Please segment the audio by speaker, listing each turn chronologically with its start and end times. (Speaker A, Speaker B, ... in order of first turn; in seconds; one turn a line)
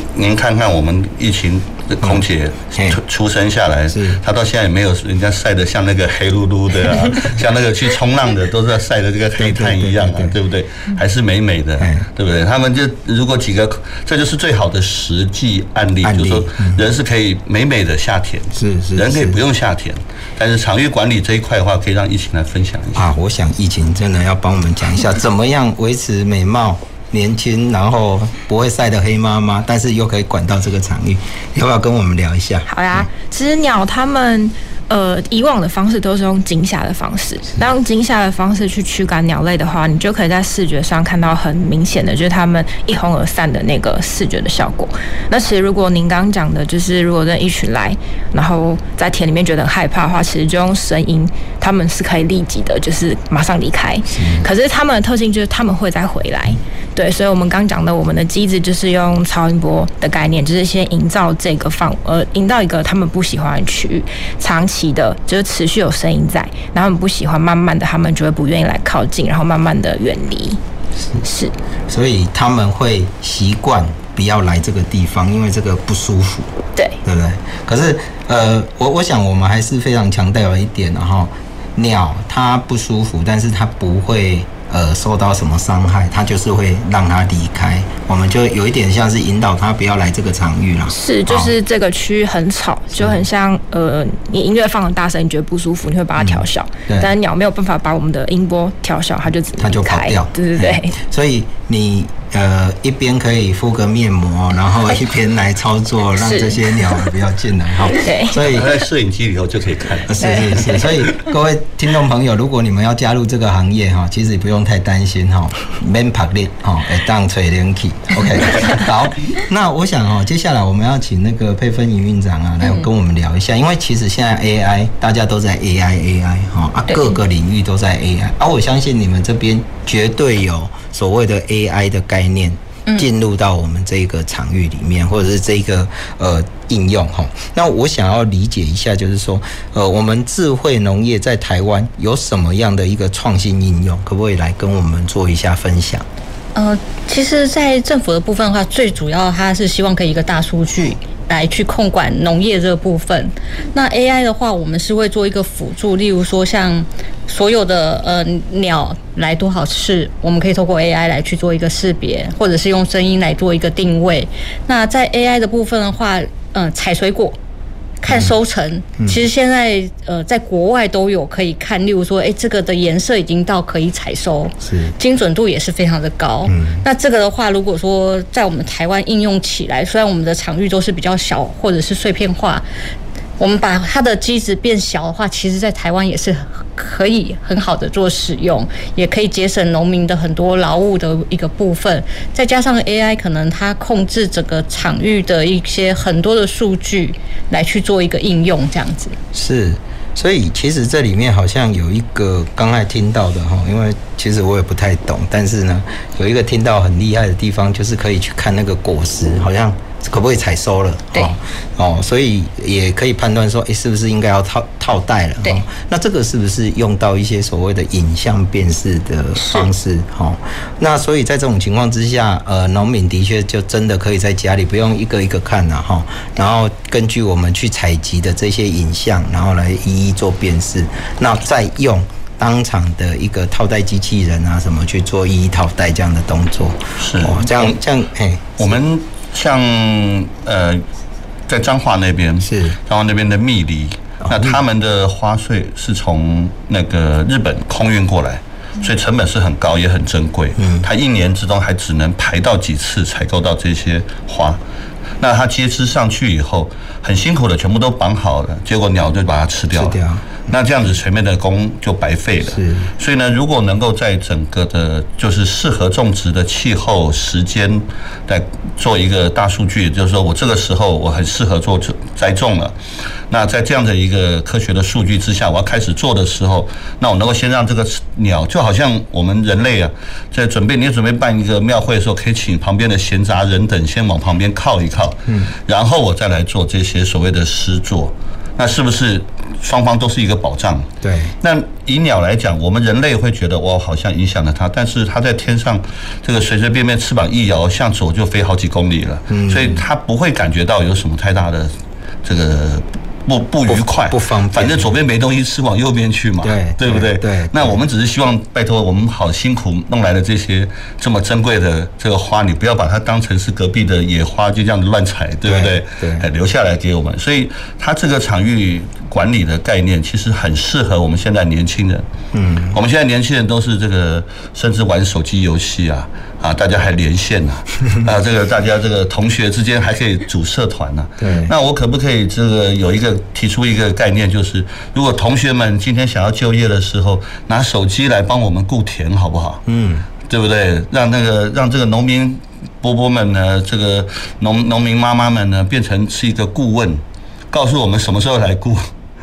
Speaker A: 0.1-23.1
Speaker B: 2.0-3.0
Speaker B: 3.9-4.2
Speaker B: 9.4-10.3
Speaker B: 11.8-12.1
Speaker B: 16.0-16.9
Speaker B: 18.6-19.4
Speaker B: 22.9-33.1
Speaker C: 32.7-70.6
Speaker B: 54.1-54.5
Speaker C: 71.2-71.5
Speaker B: 71.9-76.5
Speaker B: 77.0-91.5
Speaker C: 90.9-100.9
Speaker B: 93.0-93.2
Speaker B: 96.2-97.1
Speaker B: 99.6-108.7
Speaker C: 106.2-107.0
Speaker C: 107.9-108.4
Speaker A: 108.3-110.8
Speaker B: 110.1-146.1
Speaker C: 110.2-110.8
Speaker D: 146.5-167.4
Speaker D: 168.0-182.6
Speaker B: 168.1-168.3
Speaker B: 169.0-169.2
Speaker B: 174.6-174.9
Speaker B: 176.4-176.8
Speaker D: 183.4-199.2
Speaker B: 199.3-238.6
Speaker D: 219.4-219.7
Speaker A: 237.0-237.8
Speaker A: 238.6-240.8
Speaker A: 241.5-254.6
Speaker B: 242.4-242.8
Speaker B: 244.2-244.6
Speaker B: 250.6-250.9
Speaker A: 255.2-272.7
Speaker B: 259.7-260.4
Speaker B: 262.5-262.9
Speaker A: 273.3-290.9
Speaker B: 285.3-285.5
Speaker B: 291.0-291.3
Speaker A: 291.4-301.7
Speaker B: 299.3-299.8
Speaker A: 302.2-322.1
Speaker B: 303.7-304.9
Speaker B: 306.4-307.8
Speaker B: 315.4-316.3
Speaker B: 322.3-322.8
Speaker A: 322.7-339.6
Speaker B: 331.2-331.5
Speaker B: 339.6-340.1
Speaker A: 340.2-348.9